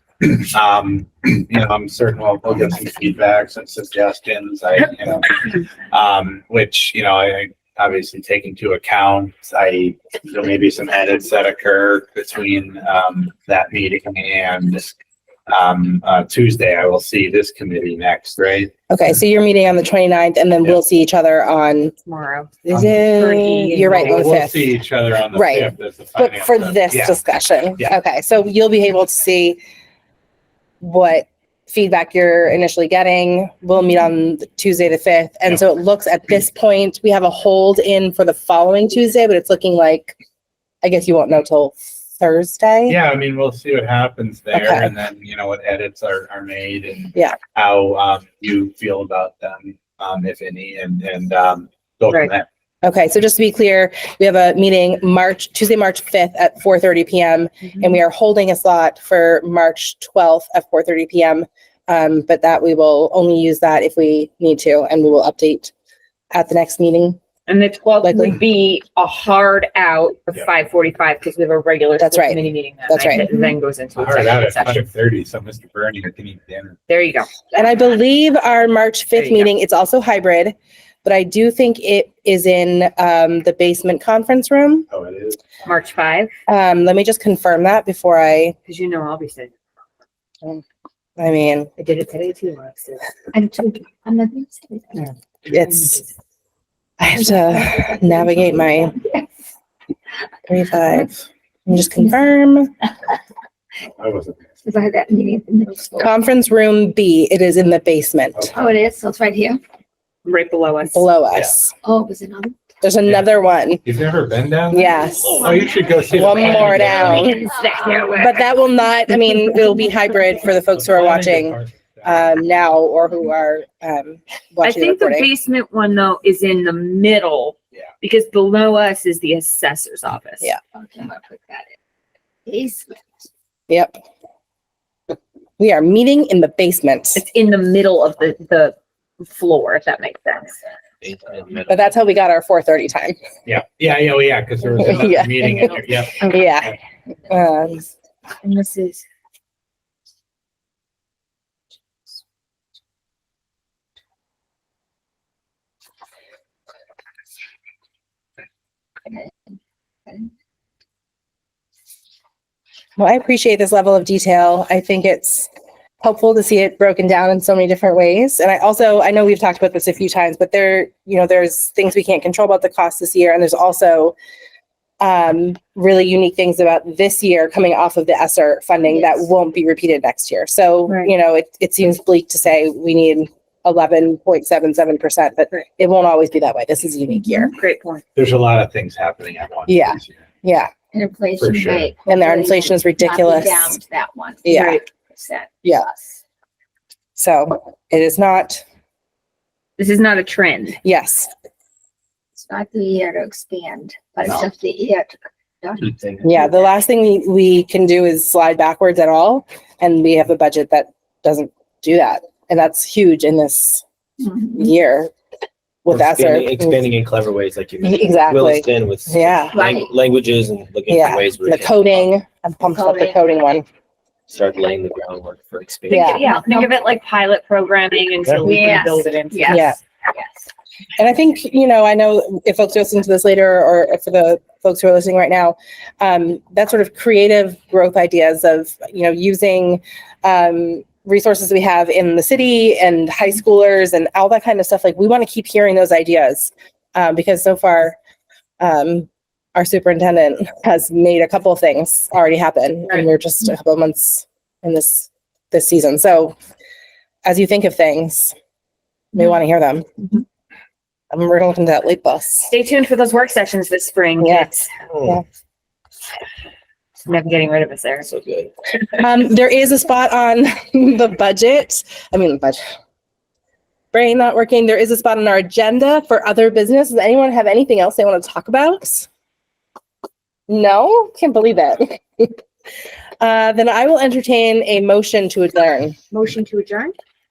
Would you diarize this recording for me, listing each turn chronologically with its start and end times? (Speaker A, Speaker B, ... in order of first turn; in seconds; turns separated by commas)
Speaker A: 0.2-14.9, Speaker A: 15.5-18.7, Speaker B: 18.9-21.9, Speaker C: 22.0-22.5, Speaker B: 22.6-24.7, Speaker C: 23.1-24.4, Speaker A: 23.9-27.2, Speaker B: 25.3-29.6, Speaker B: 30.8-40.1, Speaker B: 40.8-43.0, Speaker A: 42.9-52.5, Speaker B: 44.5-44.9, Speaker B: 52.8-65.7, Speaker B: 66.3-67.2, Speaker C: 67.5-74.8, Speaker B: 68.0-68.4, Speaker B: 72.0-73.2, Speaker A: 74.0-76.8, Speaker C: 76.9-77.5, Speaker B: 77.5-84.9, Speaker C: 79.1-79.5, Speaker A: 84.9-85.9, Speaker C: 85.7-86.3, Speaker B: 86.5-88.6, Speaker C: 88.7-89.6, Speaker B: 91.2-91.7, Speaker C: 91.8-93.1, Speaker D: 93.3-95.1, Speaker C: 95.0-96.1, Speaker B: 95.5-96.0, Speaker B: 97.0-99.0, Speaker D: 97.4-99.3, Speaker B: 100.5-101.1, Speaker B: 101.7-102.7, Speaker A: 104.0-104.4, Speaker D: 104.6-106.1, Speaker B: 106.0-108.5, Speaker D: 108.5-109.6, Speaker C: 110.2-111.1, Speaker B: 110.9-111.8, Speaker D: 111.8-112.6, Speaker B: 112.8-113.8, Speaker A: 113.8-117.3, Speaker B: 114.7-115.4, Speaker D: 114.7-116.0, Speaker E: 115.0-116.8, Speaker B: 116.1-117.5, Speaker D: 116.5-118.1, Speaker C: 116.8-118.3, Speaker B: 118.1-125.3, Speaker A: 120.7-122.7, Speaker C: 124.6-130.5, Speaker D: 130.7-131.7, Speaker D: 132.5-133.1, Speaker B: 133.7-133.9, Speaker B: 135.6-137.2, Speaker C: 137.2-140.6, Speaker E: 141.0-141.9, Speaker B: 141.7-143.2, Speaker A: 143.5-146.3, Speaker B: 144.9-145.7, Speaker B: 146.2-146.8, Speaker B: 147.3-147.9, Speaker C: 148.4-149.0, Speaker D: 159.1-159.5, Speaker B: 163.0-165.5, Speaker B: 166.0-174.2, Speaker B: 175.0-187.5, Speaker D: 178.9-179.2, Speaker C: 187.5-188.0, Speaker A: 188.2-190.2, Speaker B: 189.7-190.7, Speaker D: 190.9-196.2, Speaker A: 191.4-191.9, Speaker B: 192.1-193.8, Speaker B: 194.4-194.8, Speaker C: 194.5-194.8, Speaker B: 195.6-195.9, Speaker B: 197.2-198.6, Speaker C: 199.8-200.8, Speaker B: 200.8-201.3, Speaker D: 202.4-206.7, Speaker E: 205.9-206.3, Speaker B: 206.2-213.8, Speaker D: 214.2-214.7, Speaker B: 214.5-215.1, Speaker B: 215.8-216.8, Speaker E: 215.9-222.1, Speaker B: 217.8-219.6, Speaker D: 219.5-219.9, Speaker B: 220.9-223.7, Speaker D: 222.8-223.2, Speaker E: 224.3-226.2, Speaker C: 225.9-229.8, Speaker B: 225.9-226.2, Speaker D: 226.0-226.7, Speaker D: 228.4-230.5, Speaker B: 229.5-229.8, Speaker B: 231.0-248.0, Speaker B: 248.6-256.4, Speaker B: 257.2-258.4, Speaker B: 259.1-259.9, Speaker B: 261.1-262.5, Speaker C: 262.5-264.7, Speaker B: 264.2-264.5, Speaker E: 264.9-265.2, Speaker C: 267.1-268.1, Speaker E: 268.1-268.5, Speaker B: 269.0-272.6, Speaker B: 273.9-279.1, Speaker B: 280.5-282.4, Speaker B: 283.2-286.0, Speaker C: 286.1-287.0